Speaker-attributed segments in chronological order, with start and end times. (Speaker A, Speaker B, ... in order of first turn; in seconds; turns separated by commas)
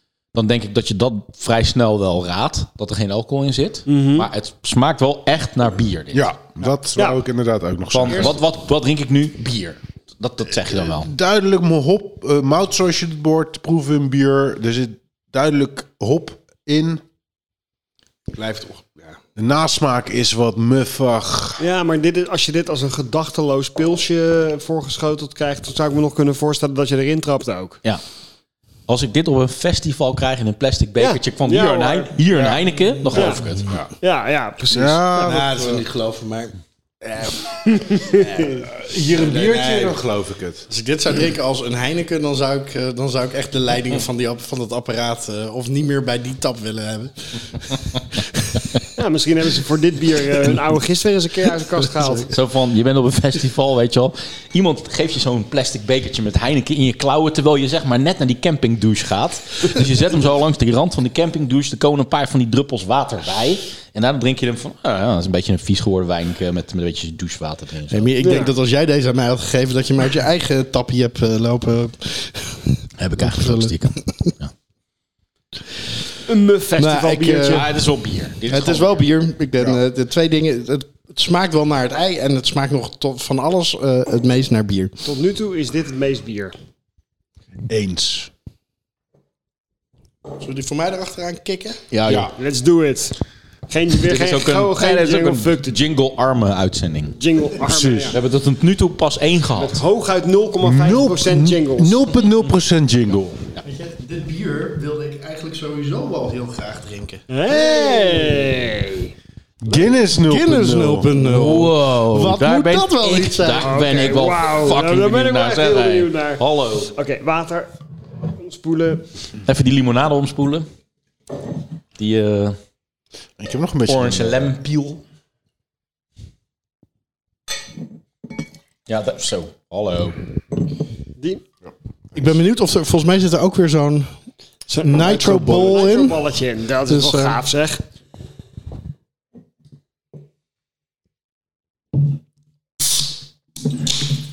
Speaker A: 0.3-6.3, Speaker B: 3.9-4.3, Speaker C: 6.1-8.4, Speaker B: 7.0-7.2, Speaker A: 7.9-11.1, Speaker C: 10.7-17.0, Speaker D: 18.3-19.2, Speaker C: 19.4-21.6, Speaker B: 21.6-27.8, Speaker A: 28.9-33.7, Speaker B: 31.0-32.1, Speaker C: 32.3-32.7, Speaker B: 33.1-33.4, Speaker B: 34.0-35.4, Speaker C: 34.7-35.8, Speaker D: 35.2-36.5, Speaker B: 37.6-38.6, Speaker D: 38.1-40.0, Speaker C: 38.6-40.7, Speaker D: 40.7-48.6, Speaker B: 49.0-52.3, Speaker A: 52.3-68.1, Speaker D: 67.9-74.3, Speaker B: 68.2-68.5, Speaker A: 73.0-74.5, Speaker B: 76.3-77.7, Speaker D: 76.8-77.7, Speaker A: 77.5-79.1, Speaker D: 78.5-85.0, Speaker B: 85.0-86.5, Speaker C: 87.7-88.3, Speaker D: 90.3-91.8, Speaker A: 91.9-92.3, Speaker C: 92.1-92.3, Speaker B: 92.3-93.2, Speaker B: 93.7-95.7, Speaker A: 94.0-97.2, Speaker B: 97.2-98.2, Speaker C: 97.6-98.2, Speaker A: 98.1-99.8, Speaker B: 99.6-102.1, Speaker C: 100.6-103.4, Speaker D: 103.6-108.4, Speaker B: 107.3-109.1, Speaker C: 109.6-111.1, Speaker D: 110.1-113.8, Speaker A: 111.2-116.9, Speaker B: 113.6-117.7, Speaker B: 118.2-119.1, Speaker A: 119.5-120.7, Speaker A: 122.0-122.6, Speaker C: 123.4-124.5, Speaker A: 123.9-125.0, Speaker A: 128.9-130.2, Speaker D: 132.1-134.1, Speaker B: 134.7-137.8, Speaker D: 134.8-136.2, Speaker D: 136.9-137.4